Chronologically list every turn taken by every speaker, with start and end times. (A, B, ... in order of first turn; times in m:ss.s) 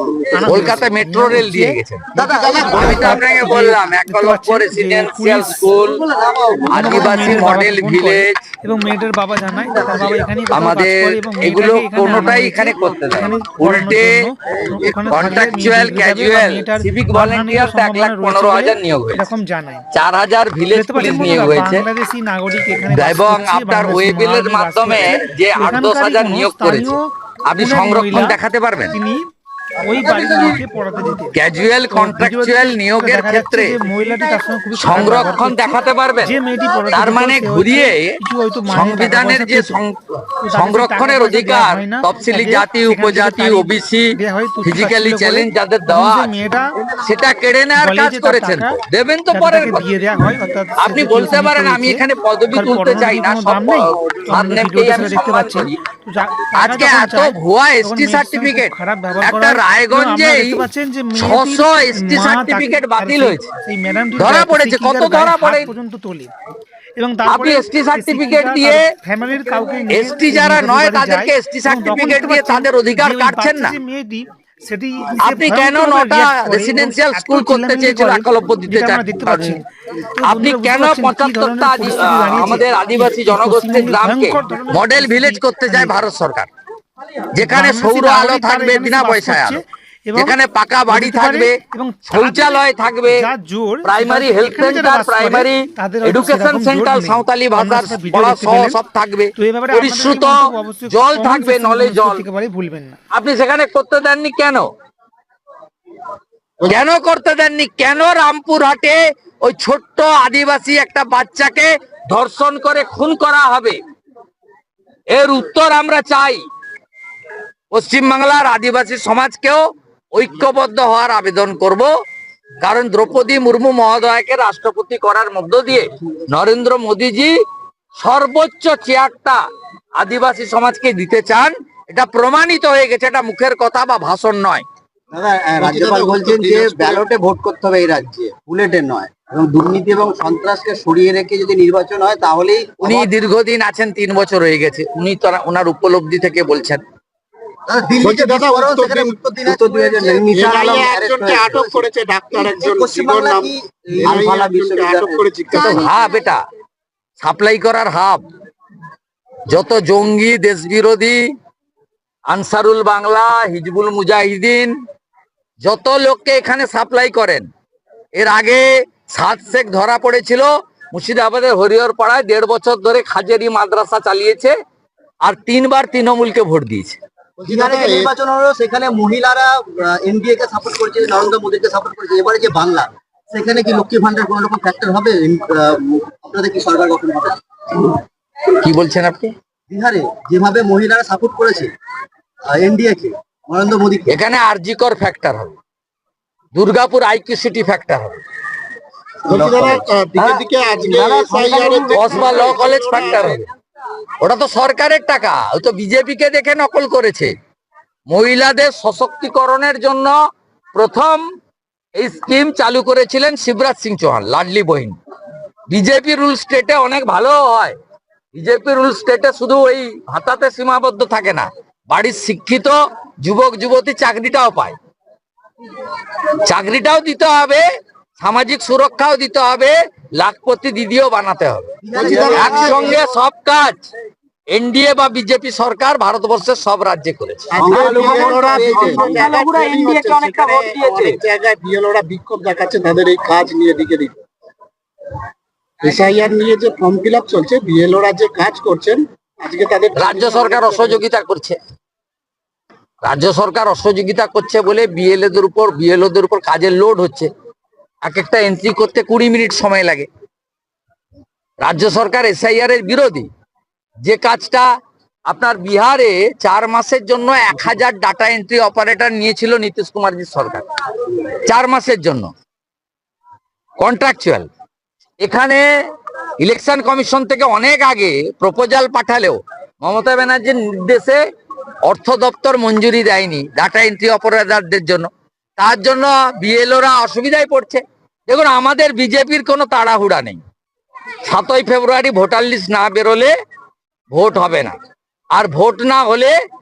0:00.3-0:05.7 A
0:00.4-0:06.0 B
0:02.2-0:03.5 C
0:02.2-0:02.8 D
0:05.8-0:07.7 C
0:06.7-0:08.4 B
0:06.7-0:19.9 A
0:09.6-0:10.3 C
0:10.5-0:14.3 B
0:15.1-0:19.3 B
0:19.9-0:21.8 B
0:20.7-0:27.0 A
0:22.9-0:29.0 B
0:27.6-0:28.4 A
0:28.9-0:29.2 A
0:29.8-0:39.8 A
0:31.3-0:33.8 B
0:34.7-0:36.4 B
0:36.9-0:40.0 B
0:40.4-0:46.7 A
0:40.5-0:46.3 B
0:47.0-0:55.8 B
0:47.7-0:48.8 A
0:49.3-1:06.3 A
0:56.5-1:03.5 B
1:04.2-1:05.7 B
1:07.0-1:26.0 A
1:07.2-1:08.9 B
1:09.9-1:13.8 B
1:15.2-1:19.6 B
1:20.2-1:26.5 B
1:27.3-1:29.6 B
1:27.4-1:32.5 A
1:30.2-1:33.3 B
1:33.0-1:38.8 A
1:33.8-1:42.2 B
1:39.3-1:43.0 A
1:43.1-1:44.7 B
1:46.6-1:53.8 B
1:55.1-1:56.4 B
1:57.7-2:01.9 B
2:02.6-2:07.3 B
2:08.0-2:09.4 B
2:10.0-2:14.6 B
2:15.1-2:23.1 C
2:15.6-2:17.0 D
2:22.8-2:26.8 B
2:27.7-2:35.9 C
2:28.0-2:35.9 D
2:35.5-2:36.4 B
2:37.2-2:38.2 B
2:39.5-2:41.2 B
2:42.3-2:44.7 B
2:45.6-2:47.5 B
2:48.2-2:54.5 B
2:55.2-2:57.0 B
2:57.4-3:07.4 C
2:57.4-2:58.1 D
3:08.6-3:09.3 B
3:09.7-3:11.7 C
3:12.5-3:14.2 C
3:14.1-3:15.6 B
3:16.5-3:18.2 B
3:19.3-3:23.4 D
3:19.3-3:19.8 B
3:20.2-3:22.4 C
3:22.0-3:23.4 B
3:24.2-3:27.3 B
3:28.1-3:30.2 B
3:30.7-3:31.2 B
3:32.0-3:35.0 B
3:35.7-3:37.8 B
3:38.3-3:44.8 B
3:46.4-3:47.6 B
3:48.2-3:53.9 B
3:51.8-3:53.0 C
3:51.9-3:52.9 D
3:54.5-4:01.2 B
3:57.5-4:04.2 D
3:57.6-3:59.2 C
4:05.8-4:11.0 D
4:09.9-4:11.6 B
4:13.0-4:17.3 B
4:18.0-4:20.1 B
4:21.6-4:23.3 B
4:24.0-4:24.7 B
4:25.3-4:32.3 B
4:33.8-4:34.5 B
4:35.2-4:35.6 B
4:36.4-4:41.2 B
4:41.8-4:50.4 B
4:51.2-4:53.3 B
4:54.1-4:54.8 B
4:55.3-4:56.3 B